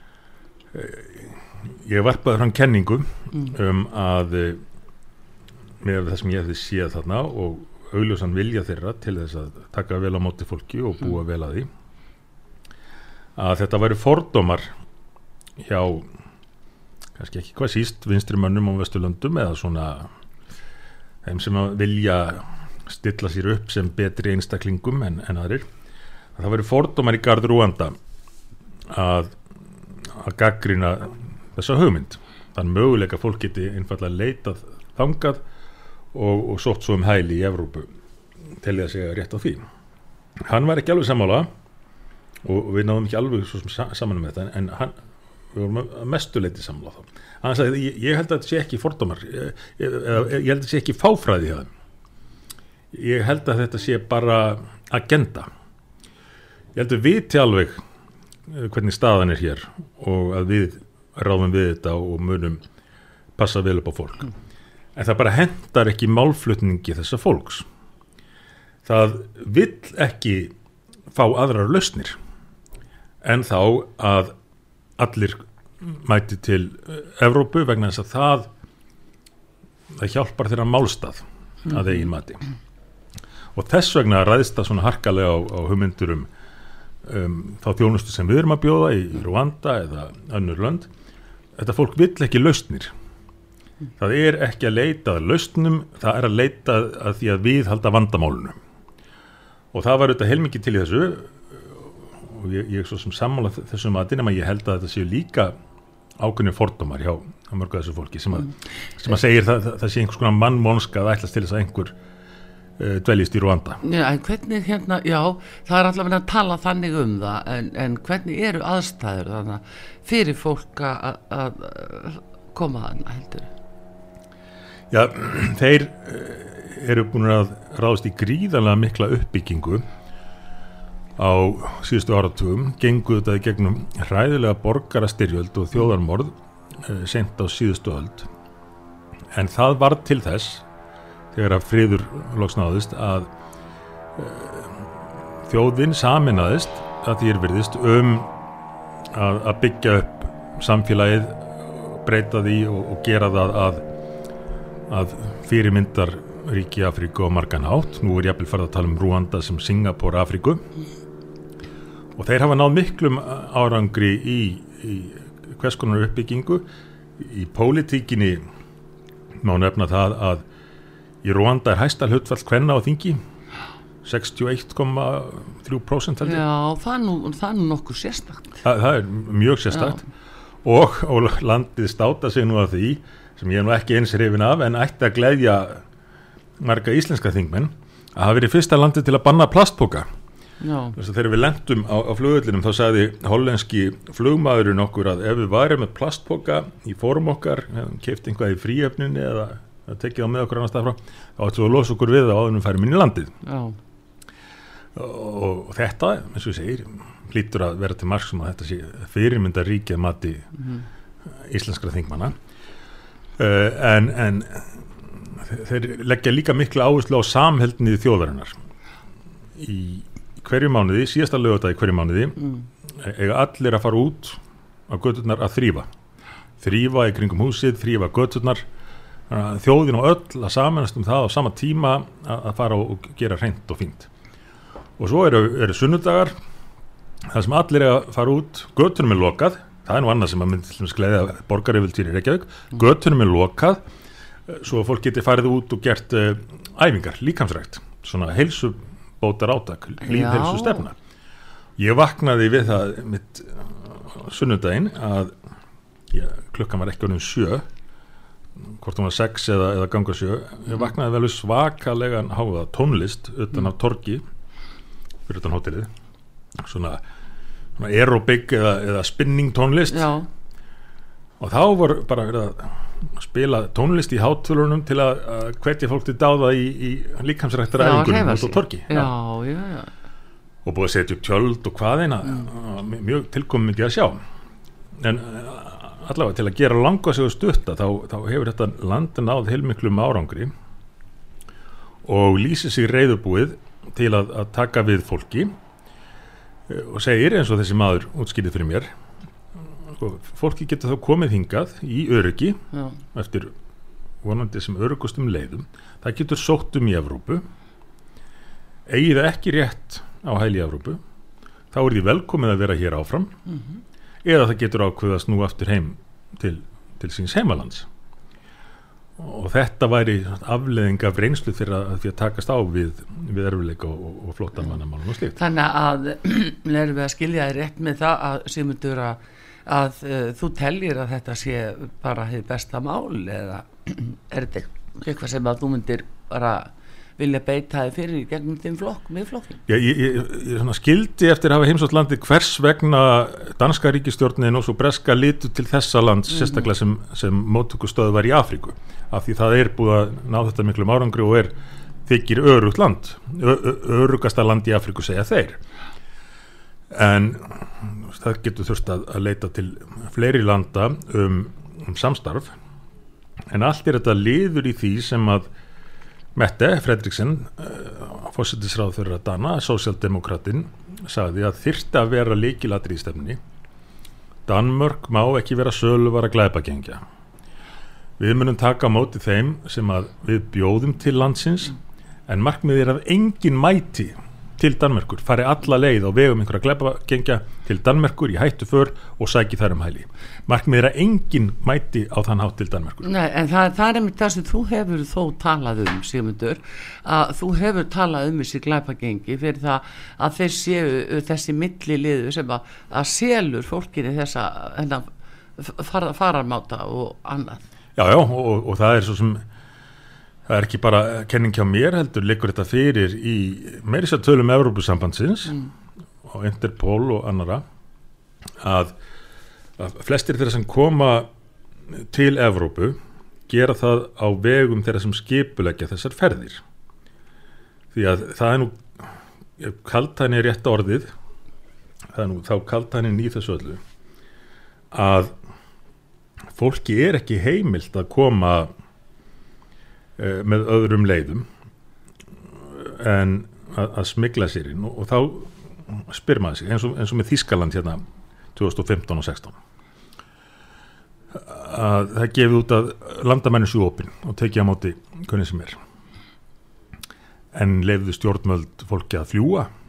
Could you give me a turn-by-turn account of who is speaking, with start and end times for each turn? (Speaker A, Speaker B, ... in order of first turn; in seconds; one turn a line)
Speaker A: 0.7-4.6
Speaker A: 5.8-11.7
Speaker A: 13.4-14.7
Speaker A: 15.6-16.1
Speaker A: 17.1-20.1
Speaker A: 21.2-25.7
Speaker A: 26.4-27.9
Speaker A: 28.9-29.3
Speaker A: 30.0-35.4
Speaker A: 36.1-37.9
Speaker A: 38.6-39.7
Speaker A: 40.4-41.5
Speaker A: 42.4-44.9
Speaker A: 45.5-51.7
Speaker A: 52.9-55.5
Speaker A: 56.7-57.8
Speaker A: 58.5-62.6
Speaker A: 63.4-64.3
Speaker A: 65.0-67.7
Speaker A: 68.8-70.5
Speaker A: 71.1-72.2
Speaker A: 73.2-74.3
Speaker A: 75.0-78.5
Speaker A: 79.9-82.4
Speaker A: 83.5-86.3
Speaker A: 87.0-90.9
Speaker A: 91.5-92.9
Speaker A: 94.0-98.6
Speaker A: 99.7-105.5
Speaker A: 106.2-111.9
Speaker A: 112.8-113.8
Speaker B: 113.8-123.5
Speaker A: 124.9-129.8
Speaker A: 131.2-138.3
Speaker A: 139.3-140.6
Speaker A: 141.3-143.3
Speaker A: 144.2-148.3
Speaker A: 149.1-153.8
Speaker A: 154.9-160.6
Speaker A: 162.2-166.7
Speaker A: 167.2-168.4
Speaker A: 169.4-170.4
Speaker A: 171.2-173.2
Speaker A: 174.0-176.4
Speaker B: 176.2-178.6
Speaker A: 178.6-180.0
Speaker B: 179.7-180.0
Speaker A: 180.6-185.8
Speaker A: 186.6-190.1
Speaker B: 190.6-190.9
Speaker A: 190.9-203.3
Speaker B: 203.4-203.8
Speaker A: 204.9-210.5
Speaker B: 210.6-210.8
Speaker A: 211.4-212.3
Speaker A: 213.4-218.5
Speaker A: 219.6-222.5
Speaker A: 223.0-225.9
Speaker A: 226.6-228.6
Speaker A: 229.3-234.1
Speaker A: 235.0-236.3
Speaker A: 237.3-243.8
Speaker A: 244.5-250.9
Speaker B: 250.0-250.8
Speaker A: 251.8-255.3
Speaker A: 256.1-257.6
Speaker A: 258.6-264.2
Speaker A: 265.3-265.9
Speaker A: 266.6-267.0
Speaker A: 267.8-270.1
Speaker B: 269.9-270.3
Speaker A: 271.4-279.1
Speaker B: 277.8-279.9
Speaker A: 280.6-284.2
Speaker A: 285.0-290.5
Speaker A: 292.0-295.5
Speaker A: 296.7-298.9
Speaker A: 299.9-302.6
Speaker A: 303.1-303.5
Speaker A: 304.2-307.4
Speaker A: 308.9-311.0
Speaker A: 311.7-313.3
Speaker A: 314.2-317.9
Speaker A: 319.2-325.4
Speaker B: 325.4-339.6
Speaker A: 339.7-351.5
Speaker A: 352.1-355.6
Speaker A: 356.9-362.5
Speaker A: 363.5-365.5
Speaker A: 366.3-373.4
Speaker A: 374.4-377.0
Speaker A: 378.2-381.8
Speaker A: 382.3-393.1
Speaker B: 393.0-405.1
Speaker B: 405.6-407.6
Speaker A: 408.0-409.4
Speaker A: 410.5-415.6
Speaker A: 416.2-417.6
Speaker A: 418.6-418.9
Speaker A: 419.8-421.3
Speaker A: 421.9-426.6
Speaker A: 427.9-428.9
Speaker A: 429.6-431.1
Speaker A: 432.1-433.8
Speaker A: 434.9-435.3
Speaker A: 436.5-438.7
Speaker A: 440.2-441.4
Speaker A: 442.7-448.0
Speaker A: 448.5-449.5
Speaker A: 451.3-455.8
Speaker A: 457.5-459.7